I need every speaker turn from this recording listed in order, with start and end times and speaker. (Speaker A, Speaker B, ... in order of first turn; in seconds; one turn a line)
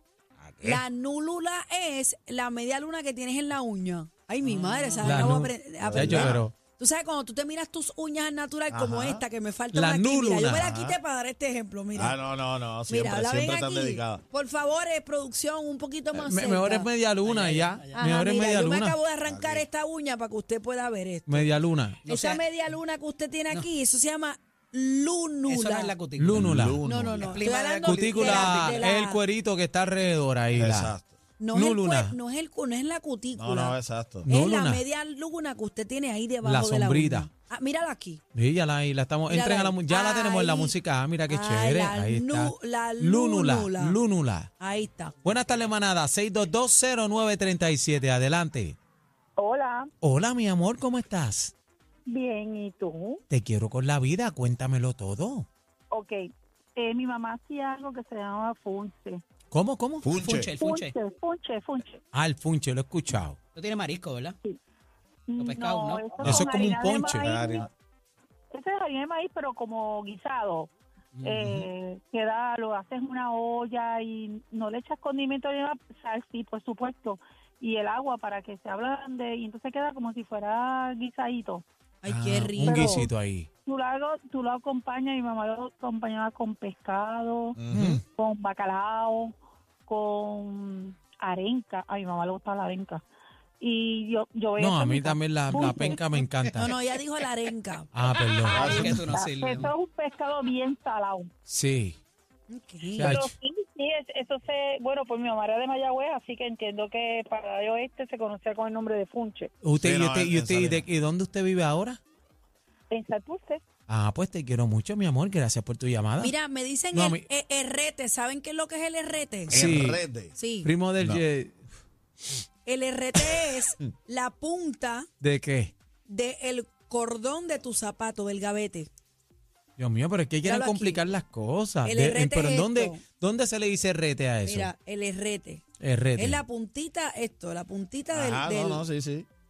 Speaker A: 0.4-0.8
Speaker B: 0.6-12.2
Speaker C: 4.4-5.1
Speaker D: 5.0-6.5
Speaker A: 5.8-6.4
Speaker A: 8.7-9.2
Speaker D: 9.7-10.7
Speaker A: 10.6-11.0
Speaker A: 11.9-14.2
Speaker B: 12.9-16.9
Speaker D: 16.1-18.9
Speaker C: 17.2-18.0
Speaker B: 17.9-21.5
Speaker A: 19.2-19.6
Speaker D: 21.3-22.0
Speaker C: 22.0-22.5
Speaker B: 22.1-25.9
Speaker C: 25.5-26.5
Speaker D: 26.1-26.8
Speaker A: 26.3-27.4
Speaker B: 26.8-29.2
Speaker C: 27.0-28.8
Speaker D: 27.8-30.9
Speaker A: 30.5-31.1
Speaker B: 31.4-33.8
Speaker D: 31.5-32.1
Speaker A: 33.4-34.3
Speaker D: 34.2-34.8
Speaker B: 34.3-38.2
Speaker D: 36.4-37.3
Speaker D: 38.3-44.5
Speaker B: 39.3-40.7
Speaker B: 41.3-44.0
Speaker B: 44.6-45.1
Speaker D: 45.2-48.8
Speaker E: 49.4-49.9
Speaker D: 50.0-51.5
Speaker E: 52.1-53.2
Speaker D: 53.3-55.5
Speaker E: 55.9-56.2
Speaker E: 56.8-59.2
Speaker D: 59.5-60.0
Speaker A: 60.0-60.5
Speaker C: 60.1-60.9
Speaker E: 60.6-62.0
Speaker D: 62.1-63.4
Speaker C: 63.5-64.3
Speaker E: 65.3-67.7
Speaker C: 65.4-66.2
Speaker A: 66.2-67.7
Speaker D: 66.2-67.3
Speaker E: 68.5-70.7
Speaker C: 71.1-71.6
Speaker E: 71.2-81.6
Speaker B: 82.0-83.1
Speaker D: 82.1-83.5
Speaker E: 82.6-83.1
Speaker E: 83.7-87.6
Speaker A: 87.6-88.0
Speaker D: 87.7-88.0
Speaker E: 88.2-89.3
Speaker E: 89.9-93.0
Speaker E: 93.6-96.3
Speaker D: 94.6-96.7
Speaker B: 96.6-97.9
Speaker D: 97.9-99.0
Speaker E: 98.3-101.3
Speaker C: 98.5-99.7
Speaker A: 98.5-98.9
Speaker D: 101.5-102.0
Speaker B: 102.5-103.2
Speaker D: 103.0-103.3
Speaker E: 103.0-109.5
Speaker D: 109.6-112.0
Speaker A: 109.8-110.8
Speaker E: 112.9-113.6
Speaker D: 113.9-116.3
Speaker B: 116.2-119.6
Speaker D: 116.9-117.2
Speaker D: 119.5-120.0
Speaker A: 119.5-120.3
Speaker B: 120.3-120.7
Speaker D: 120.6-121.6
Speaker B: 122.7-125.1
Speaker D: 125.2-125.7
Speaker B: 126.1-128.9
Speaker D: 129.8-134.7
Speaker B: 130.4-131.1
Speaker B: 131.8-133.0
Speaker B: 134.4-135.6
Speaker D: 135.8-136.4
Speaker B: 136.2-138.8
Speaker A: 138.1-139.3